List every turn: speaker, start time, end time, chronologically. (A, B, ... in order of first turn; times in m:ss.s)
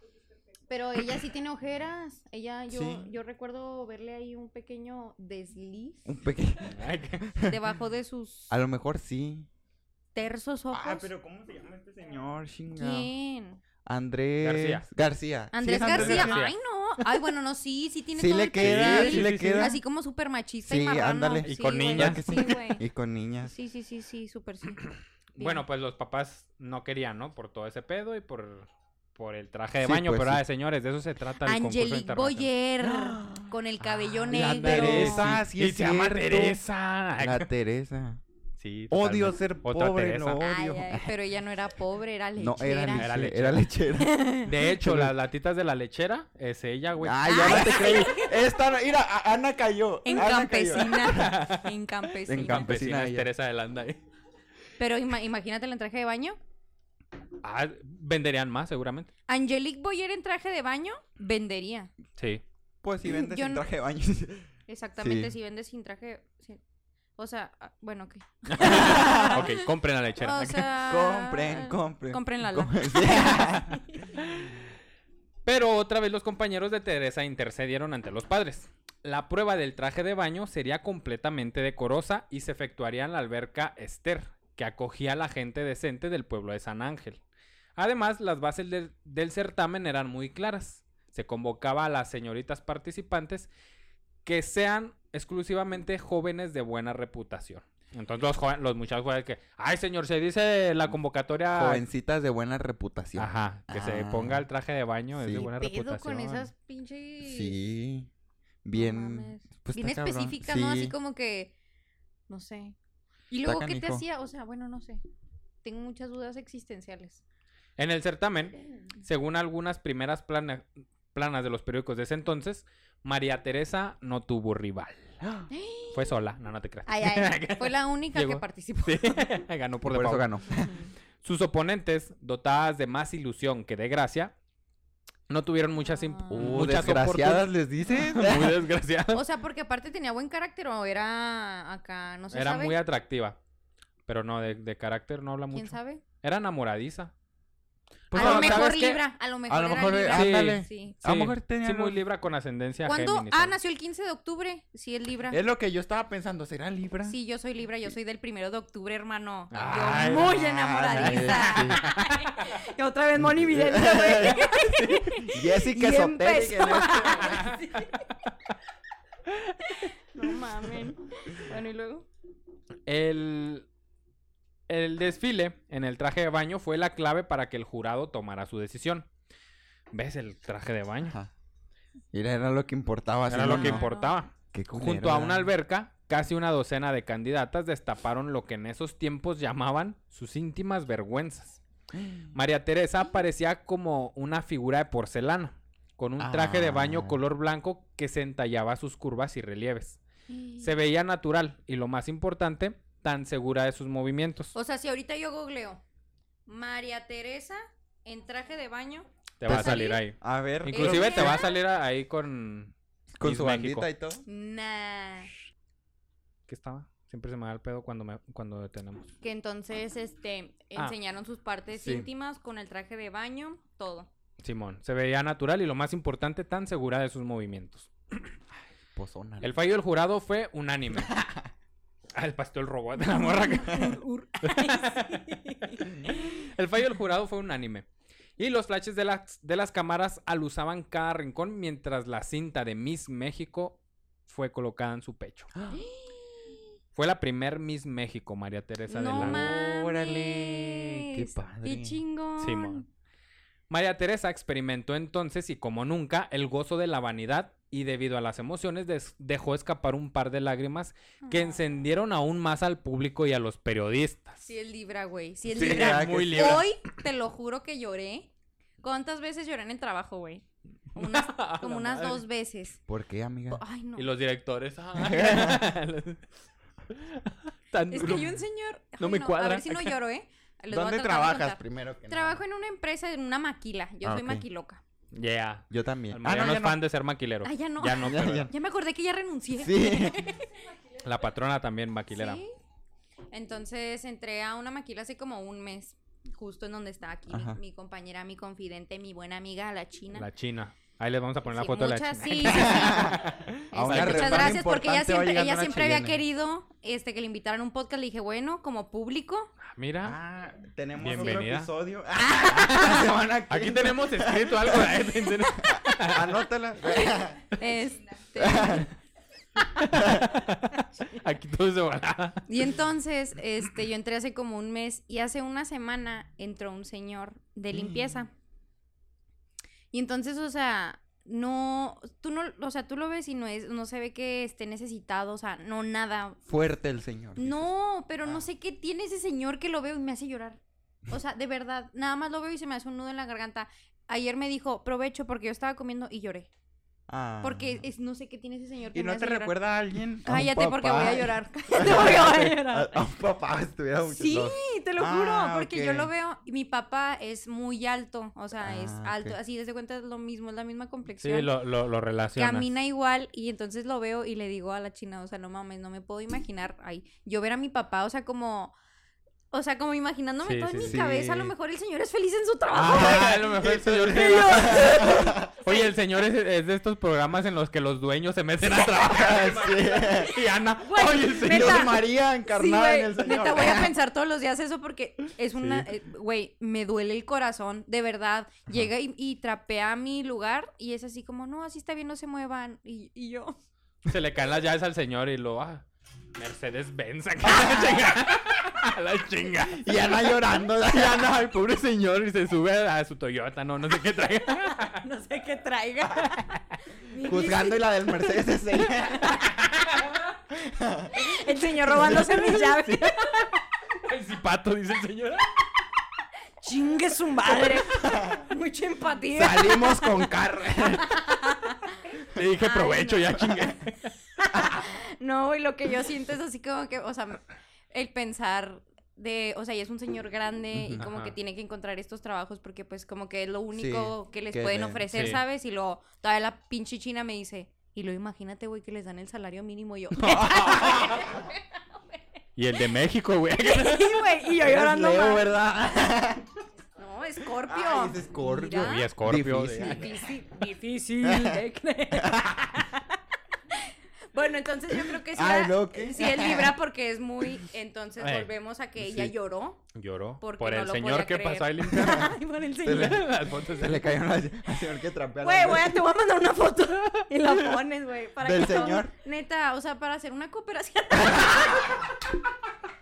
0:00.7-0:06.1 A
0:02.7-0:03.1 B
0:06.1-0:07.6 B
0:06.7-0:07.3 C
0:07.4-0:08.6 A
0:08.5-0:09.5 B
0:10.2-0:11.1 A
0:10.7-0:13.1 B
0:12.8-0:13.6 A
0:13.8-0:16.4 B
0:14.4-0:14.9 C
0:15.5-0:22.8 A
0:15.7-0:16.6 C
0:18.2-0:19.8 B
0:18.6-0:19.8 C
0:20.6-0:23.5 B
0:21.4-0:22.6 C
0:23.4-0:24.9 A
0:25.4-0:32.5 C
0:25.4-0:25.6 A
0:29.8-0:30.4 B
0:31.4-0:35.3 A
0:32.8-0:33.5 B
0:33.8-0:37.5 C
0:34.3-0:36.6 B
0:37.2-0:38.2 B
0:38.6-0:40.4 C
0:38.9-0:41.1 B
0:40.4-0:43.3 A
0:42.4-0:45.1 B
0:43.0-0:43.7 C
0:44.0-0:44.5 A
0:44.4-0:48.1 C
0:47.0-0:51.4 B
0:47.2-0:48.4 A
0:50.0-0:52.7 A
0:50.9-0:51.7 C
0:52.2-0:53.3 B
0:52.3-0:54.0 C
0:54.8-0:56.4 A
0:57.4-0:59.1 C
0:59.3-1:01.9 A
1:02.2-1:02.4 C
1:02.8-1:05.3 B
1:03.1-1:03.6 A
1:04.7-1:06.6 A
1:07.2-1:09.6 A
1:08.5-1:10.7 C
1:08.6-1:09.5 B
1:10.2-1:14.1 A
1:10.8-1:13.8 B
1:14.2-1:14.6 C
1:15.4-1:27.2 C
1:27.8-1:33.5 C
1:34.2-1:41.8 C
1:41.5-1:44.5 B
1:43.2-1:46.5 C
1:45.2-1:45.5 B
1:45.4-1:47.6 A
1:47.2-1:48.1 B
1:48.6-1:51.0 B
1:48.7-1:51.5 A
1:52.3-1:52.8 A
1:53.3-1:55.0 A
1:53.4-1:54.0 B
1:55.6-1:57.2 A
1:57.8-2:05.2 C
2:05.2-2:05.5 B
2:05.5-2:06.2 A
2:05.9-2:10.3 C
2:06.9-2:09.3 A
2:09.9-2:10.7 B
2:10.6-2:10.9 A
2:11.2-2:14.4 C
2:15.3-2:19.2 C
2:15.8-2:16.6 A
2:16.3-2:18.6 B
2:19.1-2:22.8 A
2:22.3-2:23.4 C
2:24.1-2:27.1 C
2:25.5-2:26.0 A
2:28.1-2:28.8 B
2:28.1-2:29.0 C
2:28.1-2:31.0 A
2:29.5-2:32.0 B
2:30.1-2:33.6 C
2:32.9-2:35.4 A
2:35.3-2:37.2 B
2:37.1-2:48.1 A
2:39.5-2:40.4 C
2:39.6-2:41.8 B
2:40.9-2:42.6 C
2:43.2-2:44.5 B
2:44.3-2:45.2 C
2:45.1-2:47.5 B
2:47.1-2:48.6 C
2:49.3-2:49.7 C
2:49.6-2:52.1 A
2:52.9-2:53.7 C
2:54.7-2:59.1 C
2:59.9-3:01.2 C
3:01.0-3:01.3 B
3:02.1-3:03.8 B
3:03.3-3:11.6 C
3:03.4-3:04.2 A
3:04.5-3:05.5 B
3:11.9-3:12.3 B
3:12.3-3:20.0 C
3:16.2-3:17.2 B
3:20.3-3:20.7 A
3:20.6-3:24.5 C
3:24.6-3:25.8 A
3:26.5-3:30.0 A
3:29.4-3:33.9 C
3:29.5-3:31.4 B
3:30.7-3:31.6 A
3:33.2-3:34.2 B
3:34.3-3:35.3 A
3:36.5-3:39.1 C
3:39.2-3:44.1 A
3:41.7-3:42.1 B
3:44.4-3:48.3 C
3:49.0-3:49.5 B
3:49.4-3:51.2 C
3:51.1-3:51.4 B
3:52.2-3:57.9 C
3:53.4-3:56.1 A
3:58.4-4:05.5 C
4:05.6-4:05.8 B
4:05.7-4:06.6 A
4:07.0-4:09.5 C
4:08.9-4:12.8 A
4:09.1-4:12.0 B
4:12.4-4:12.8 C
4:13.7-4:24.4 C
4:21.2-4:21.6 A
4:24.4-4:28.3 A
4:25.5-4:26.6 B
4:25.5-4:26.7 C
4:28.8-4:32.8 A
4:30.9-4:32.2 C
4:32.9-4:33.6 B
4:33.5-4:34.1 A
4:34.0-4:36.3 C
4:35.0-4:35.6 B
4:36.9-4:38.4 C
4:37.9-4:44.8 A
4:39.0-4:39.9 C
4:40.7-4:42.4 B
4:44.0-4:44.4 B
4:45.1-4:48.5 C
4:45.7-4:46.8 B
4:47.4-4:50.6 A
4:48.0-4:48.5 B
4:49.6-4:50.2 B
4:51.0-4:52.4 C
4:52.1-4:52.5 A
4:53.3-5:00.3 A
4:57.3-4:57.6 B
5:00.1-5:04.6 C
5:01.5-5:09.5 A
5:02.4-5:06.2 B
5:09.6-5:10.2 C
5:10.0-5:15.0 B
5:11.0-5:11.7 C
5:12.2-5:13.1 A
5:12.5-5:16.2 C
5:15.6-5:17.5 B
5:15.6-5:16.1 A
5:16.9-5:18.9 A
5:18.4-5:18.9 B
5:19.7-5:22.5 C
5:20.0-5:20.2 B
5:22.5-5:28.3 A
5:27.7-5:28.2 B
5:29.9-5:36.4 A
5:36.5-5:37.7 B
5:37.4-5:46.5 A
5:47.1-5:47.8 B
5:47.4-5:49.6 A
5:48.9-5:56.1 B
5:50.2-5:53.1 A
5:54.0-6:01.6 A
5:58.6-5:59.4 B
6:01.2-6:02.7 C
6:02.4-6:08.8 A
6:09.5-6:13.5 A
6:10.4-6:11.0 C
6:10.8-6:11.5 B
6:12.7-6:21.9 C
6:12.9-6:15.5 B
6:14.0-6:15.9 A
6:18.8-6:20.4 B
6:20.8-6:33.6 A
6:21.4-6:23.9 B
6:25.6-6:25.9 C
6:34.1-6:40.1 C
6:39.7-6:41.3 B
6:40.8-6:45.0 C
6:44.5-6:49.4 A
6:46.2-6:46.5 C
6:47.2-6:49.4 B
6:49.2-6:50.2 C
6:50.5-6:51.3 B
6:51.1-6:53.5 A
6:51.9-6:52.8 B
6:53.4-6:55.5 C
6:56.6-7:00.3 A
6:58.0-6:58.4 B
6:59.3-7:01.2 B
7:00.9-7:03.7 A
7:02.3-7:04.1 C
7:04.4-7:21.6 A
7:04.5-7:04.8 B
7:10.7-7:11.0 B
7:11.0-7:11.3 C
7:13.8-7:15.1 B
7:15.1-7:15.4 C
7:20.2-7:21.3 C
7:20.3-7:21.3 B
7:22.6-7:24.2 C
7:23.6-7:25.5 A
7:24.6-7:26.5 B
7:27.0-7:29.1 A
7:27.6-7:30.2 B
7:28.8-7:30.2 C
7:29.8-7:33.2 A
7:31.2-7:31.6 B
7:32.2-7:32.6 B
7:33.7-7:43.3 A
7:35.0-7:36.8 B
7:38.2-7:38.5 C
7:39.0-7:39.3 B
7:40.0-7:42.3 C
7:41.9-7:42.2 B
7:42.8-7:46.0 B
7:42.9-7:44.1 C
7:45.4-7:52.1 A
7:48.4-7:49.1 B